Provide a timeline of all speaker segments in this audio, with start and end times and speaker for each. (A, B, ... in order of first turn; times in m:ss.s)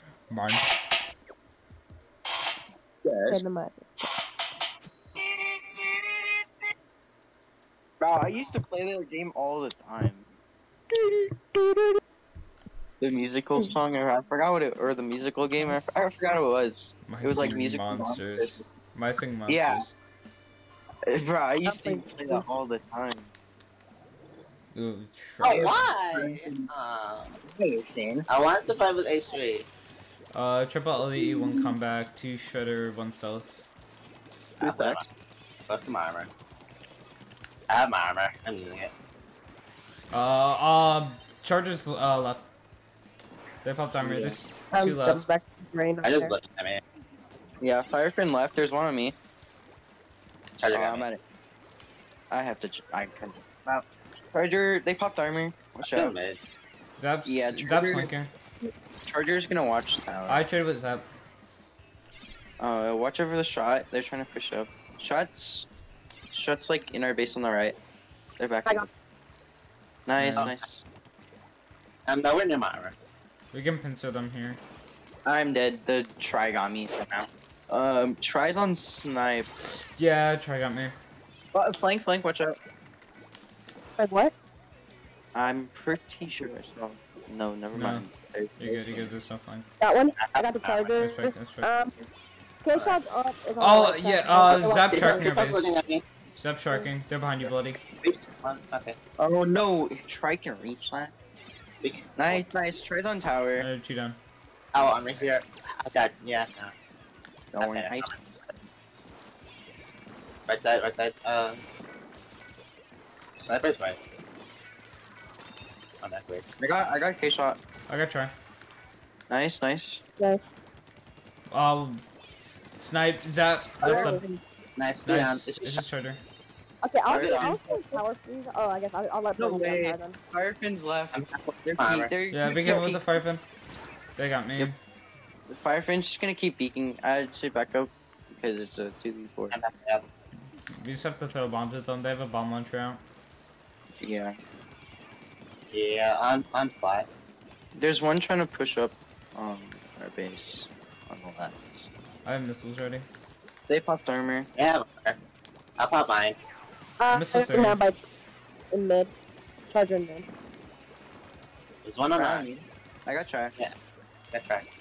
0:00.3-0:00.7 A
0:03.0-0:03.4 B
0:03.3-0:04.0 C
0:08.0-0:10.3 B
0:13.0-0:18.6 B
0:17.1-0:19.9 A
0:19.5-0:19.8 B
0:21.1-0:23.3 B
0:21.6-0:22.4 C
0:24.7-0:25.9 A
0:25.4-0:27.4 D
0:25.5-0:26.7 B
0:27.5-0:28.3 B
0:28.3-0:29.6 D
0:30.3-0:33.6 A
0:31.2-0:31.7 C
0:34.6-0:35.0 D
0:34.6-0:35.1 B
0:35.7-0:36.3 D
0:37.7-0:38.9 D
0:40.1-0:42.4 A
0:43.6-0:45.2 A
0:44.0-0:44.4 B
0:44.7-0:46.3 C
0:46.0-0:46.8 D
0:47.6-0:49.2 B
0:50.6-0:51.0 D
0:50.7-0:51.2 B
0:52.3-0:56.1 B
0:55.8-0:56.4 D
0:57.0-0:58.3 A
0:57.2-0:58.1 B
0:59.1-1:00.4 B
1:00.3-1:01.0 A
1:02.6-1:05.7 B
1:06.3-1:07.8 B
1:08.4-1:08.9 B
1:10.0-1:10.8 B
1:10.2-1:10.5 A
1:10.4-1:10.6 D
1:12.0-1:12.9 D
1:13.5-1:14.6 A
1:15.2-1:19.5 B
1:19.8-1:20.9 A
1:21.5-1:22.6 B
1:24.0-1:24.3 C
1:25.3-1:29.1 B
1:27.7-1:28.1 A
1:28.6-1:29.7 A
1:29.8-1:32.0 C
1:30.2-1:31.0 D
1:31.0-1:31.7 A
1:32.6-1:35.3 C
1:33.6-1:35.7 A
1:34.5-1:36.0 D
1:36.4-1:37.8 A
1:37.9-1:39.0 D
1:39.2-1:41.1 B
1:41.8-1:42.4 D
1:42.2-1:43.7 B
1:43.6-1:44.2 A
1:44.7-1:46.7 D
1:47.5-1:48.1 B
1:47.6-1:48.2 D
1:50.5-1:51.6 D
1:53.4-1:54.0 D
1:56.0-1:56.5 D
1:56.6-1:57.6 B
1:57.9-1:58.3 A
1:59.3-2:00.0 B
2:00.2-2:00.6 C
2:01.5-2:02.0 A
2:02.8-2:04.2 A
2:03.8-2:04.4 B
2:03.8-2:04.2 C
2:04.8-2:05.8 D
2:05.0-2:06.2 A
2:06.8-2:10.2 C
2:07.1-2:07.6 D
2:07.2-2:07.9 B
2:09.4-2:13.0 B
2:11.1-2:12.1 D
2:12.3-2:13.4 A
2:14.2-2:14.8 A
2:15.5-2:19.6 B
2:19.5-2:20.0 D
2:20.8-2:23.0 A
2:24.0-2:24.4 B
2:25.7-2:27.1 D
2:27.8-2:31.9 B
2:32.2-2:33.0 A
2:33.7-2:34.5 B
2:34.6-2:35.2 D
2:35.8-2:36.4 D
2:37.0-2:38.0 C
2:37.1-2:37.8 A
2:38.7-2:39.1 C
2:39.7-2:40.2 C
2:41.8-2:42.4 D
2:42.1-2:43.5 B
2:44.3-2:44.6 D